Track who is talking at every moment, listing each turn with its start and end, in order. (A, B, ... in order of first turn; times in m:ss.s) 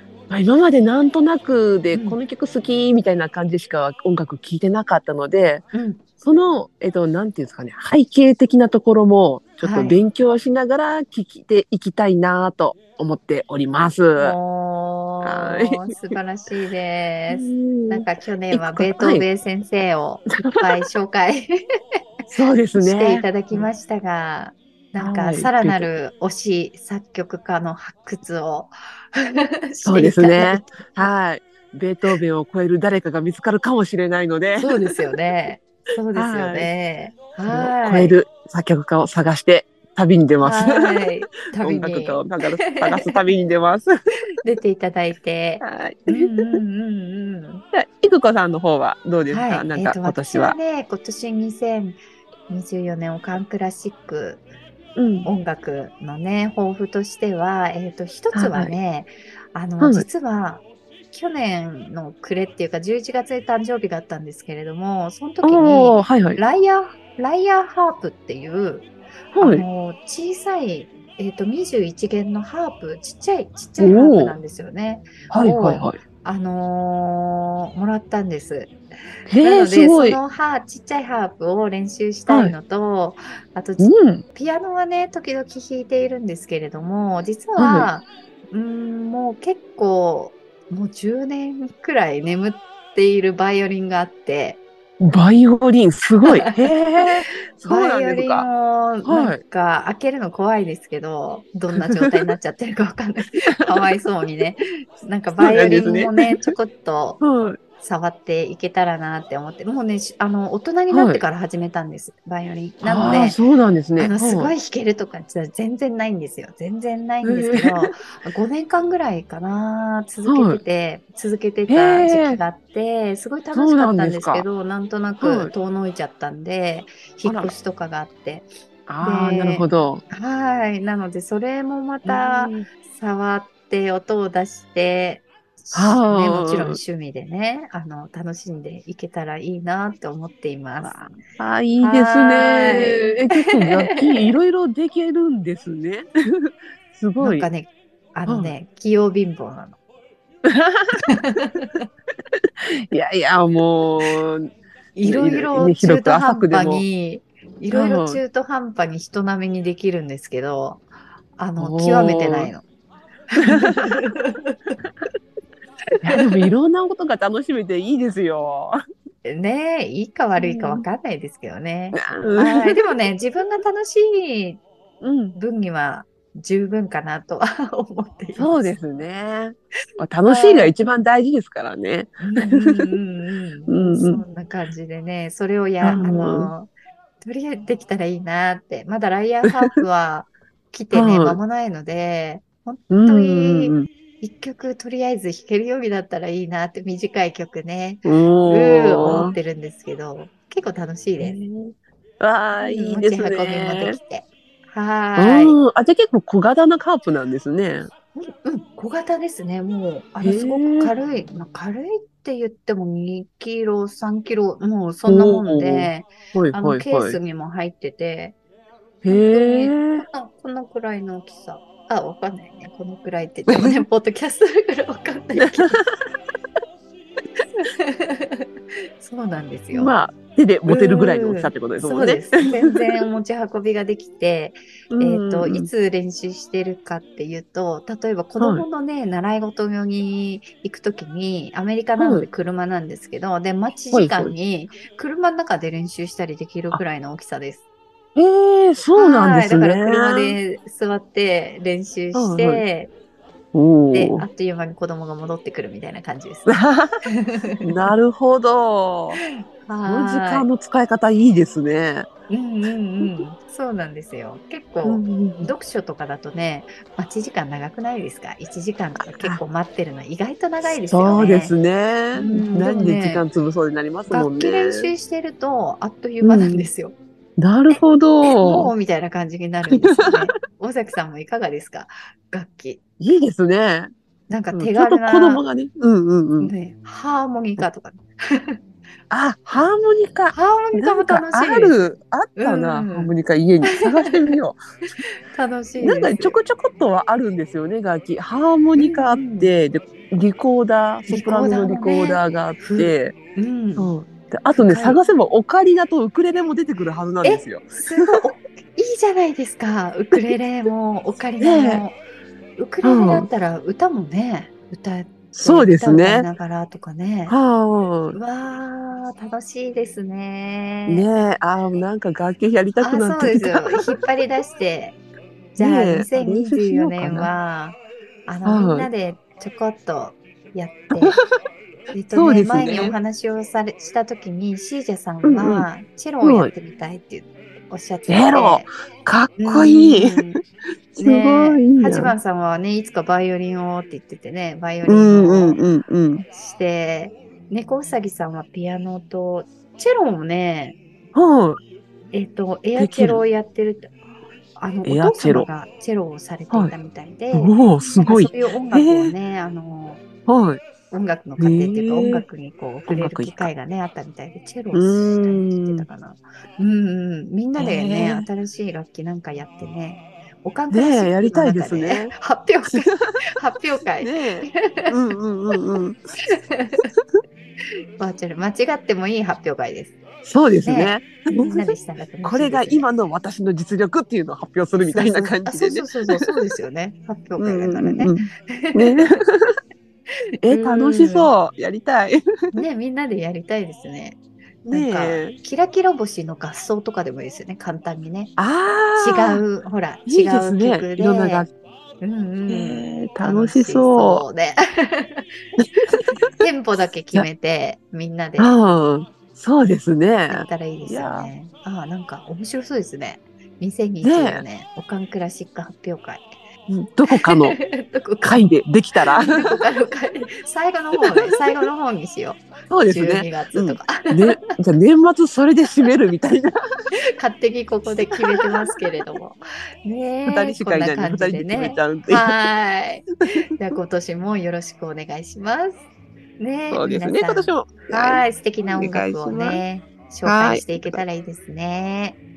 0:00.3-0:05.7 A
0:01.9-0:02.2 B
0:05.7-0:06.1 B
0:06.2-0:14.4 A
0:09.6-0:10.0 B
0:14.2-0:21.5 B
0:15.2-0:16.1 A
0:17.3-0:19.3 A
0:20.3-0:20.9 A
0:22.3-0:23.7 A
0:22.8-0:30.9 B
0:25.0-0:25.9 A
0:29.8-0:35.1 A
0:34.6-0:38.2 B
0:36.2-0:36.7 A
0:37.5-0:43.9 A
0:40.4-0:43.1 B
0:44.4-0:47.6 B
0:45.6-0:46.5 A
0:47.7-0:50.6 A
0:49.3-0:54.4 B
0:55.0-0:55.3 A
0:55.2-1:18.8 B
0:58.3-0:58.8 A
0:59.8-1:00.1 A
1:05.4-1:06.4 A
1:09.3-1:09.7 A
1:13.8-1:14.4 A
1:15.3-1:16.0 A
1:19.3-1:20.2 A
1:19.4-1:34.6 B
1:22.3-1:22.6 A
1:23.8-1:24.2 A
1:27.6-1:27.9 A
1:35.0-1:38.5 A
1:36.2-1:36.5 B
1:37.7-1:47.2 B
1:39.0-1:39.4 A
1:41.7-1:42.2 A
1:43.4-1:43.9 A
1:45.4-1:46.5 A
1:47.2-1:47.6 A
1:47.8-1:53.4 B
1:50.9-1:51.2 A
1:52.8-1:54.5 A
1:54.0-2:08.5 B
1:57.2-1:58.0 A
2:00.3-2:00.6 A
2:01.7-2:02.4 A
2:03.5-2:04.5 A
2:05.2-2:05.5 A
2:07.2-2:07.6 A
2:08.9-2:10.0 A
2:09.0-2:21.2 B
2:12.0-2:12.7 A
2:15.7-2:16.8 A
2:20.9-2:27.5 A
2:21.8-2:24.3 B
2:27.2-2:29.8 B
2:28.3-2:28.5 A
2:30.5-2:31.0 A
2:31.1-2:31.8 B
2:32.9-2:34.5 A
2:35.0-2:40.8 B
2:35.0-2:36.8 A
2:37.7-2:38.2 A
2:41.4-2:42.6 B
2:41.6-2:42.5 A
2:43.3-2:44.6 B
2:43.4-2:43.9 A
2:46.0-2:48.8 A
2:46.1-2:46.4 B
2:49.2-2:54.6 B
2:50.4-2:50.9 A
2:51.9-2:52.9 A
2:55.0-2:55.4 A
2:55.4-2:58.7 B
2:58.4-3:03.0 A
3:00.3-3:00.7 B
3:02.2-3:06.7 B
3:03.7-3:04.2 A
3:05.8-3:06.5 A
3:07.2-3:21.4 B
3:10.9-3:11.4 A
3:12.9-3:13.9 A
3:18.0-3:19.4 A
3:21.2-3:24.0 A
3:22.6-3:25.6 B
3:25.2-3:27.9 A
3:28.2-3:38.4 B
3:30.2-3:30.9 A
3:35.1-3:37.2 A
3:39.0-3:40.1 A
3:39.1-3:45.8 B
3:43.5-3:43.8 A
3:45.4-3:46.0 A
3:47.4-3:48.5 B
3:49.0-3:50.0 B
3:49.7-3:53.0 A
3:50.7-4:07.6 B
3:54.9-3:55.7 A
3:58.4-3:58.7 A
4:02.0-4:02.3 A
4:03.9-4:04.3 A
4:08.2-4:10.4 A
4:09.0-4:12.9 B
4:12.1-4:12.6 A
4:13.5-4:14.3 A
4:13.9-4:16.6 B
4:16.5-4:17.0 A
4:17.1-4:17.7 B
4:17.6-4:19.2 A
4:19.2-4:20.4 B
4:19.8-4:22.1 A
4:22.3-4:31.5 B
4:24.8-4:25.5 A
4:29.0-4:29.4 A
4:30.7-4:34.9 A
4:32.2-4:33.3 B
4:34.1-4:37.0 B
4:36.2-4:36.7 A
4:37.4-4:38.7 A
4:37.7-4:42.8 B
4:39.7-4:40.4 A
4:43.0-4:43.9 A
4:44.3-4:45.4 B
4:44.5-4:46.5 A
4:46.4-4:48.6 B
4:49.1-4:54.6 A
4:50.3-4:51.8 B
4:52.4-4:53.2 B
4:53.7-4:54.3 B
4:55.3-4:56.4 B
4:55.8-5:03.2 A
4:58.8-4:59.6 B
5:01.1-5:05.0 B
5:03.8-5:08.2 A
5:07.2-5:12.0 B
5:11.4-5:11.8 A
5:12.6-5:17.4 B
5:12.8-5:13.3 A
5:15.4-5:16.3 A
5:17.3-5:18.2 A
5:18.1-5:21.1 B
5:20.9-5:23.9 A
5:22.8-5:25.0 B
5:25.6-5:31.2 B
5:25.6-5:27.3 A
5:28.4-5:28.9 A
5:30.9-5:31.2 A
5:31.9-5:38.7 B
5:32.1-5:33.0 A
5:35.2-5:35.7 A
5:36.2-5:36.5 A
5:38.1-5:40.4 A
5:39.4-5:40.4 B
5:41.0-5:42.2 A
5:41.0-5:45.6 B
5:44.8-5:46.2 A
5:46.2-5:50.8 B
5:51.2-5:51.6 A
5:52.1-5:53.9 B
5:52.8-5:53.2 A
5:54.6-6:00.1 B
5:54.8-5:55.5 A
5:56.5-5:56.8 A
5:57.3-5:59.1 A
6:00.3-6:00.6 A
6:00.9-6:15.0 B
6:01.4-6:02.2 A
6:02.9-6:03.5 A
6:04.7-6:05.9 A
6:07.6-6:08.3 A
6:10.7-6:12.1 A
6:12.6-6:13.2 A
6:14.0-6:16.0 A
6:16.2-6:16.9 B
6:18.0-6:20.0 B
6:20.2-6:26.3 A
6:20.6-6:22.9 B
6:24.9-6:29.1 B
6:27.4-6:29.6 A
6:30.4-6:32.6 A
6:30.5-6:31.3 B
6:32.6-6:34.2 B
6:34.7-6:35.4 A
6:34.7-6:38.3 B
6:38.4-6:39.4 A
6:39.0-6:41.5 B
6:40.1-6:41.5 A
6:42.0-6:45.2 B
6:42.5-6:44.2 A
6:45.6-6:46.2 A
6:46.4-6:48.5 B
6:48.4-6:51.3 A
6:50.3-6:56.3 B
6:54.0-6:54.4 A
6:56.7-6:57.6 A
6:57.1-7:04.4 B
6:58.2-6:59.7 A
7:01.0-7:01.4 A
7:02.7-7:06.5 A
7:07.2-7:15.8 B
7:07.9-7:08.8 A
7:10.3-7:12.4 A
7:16.4-7:22.2 B
7:16.7-7:19.6 A
7:20.2-7:21.0 A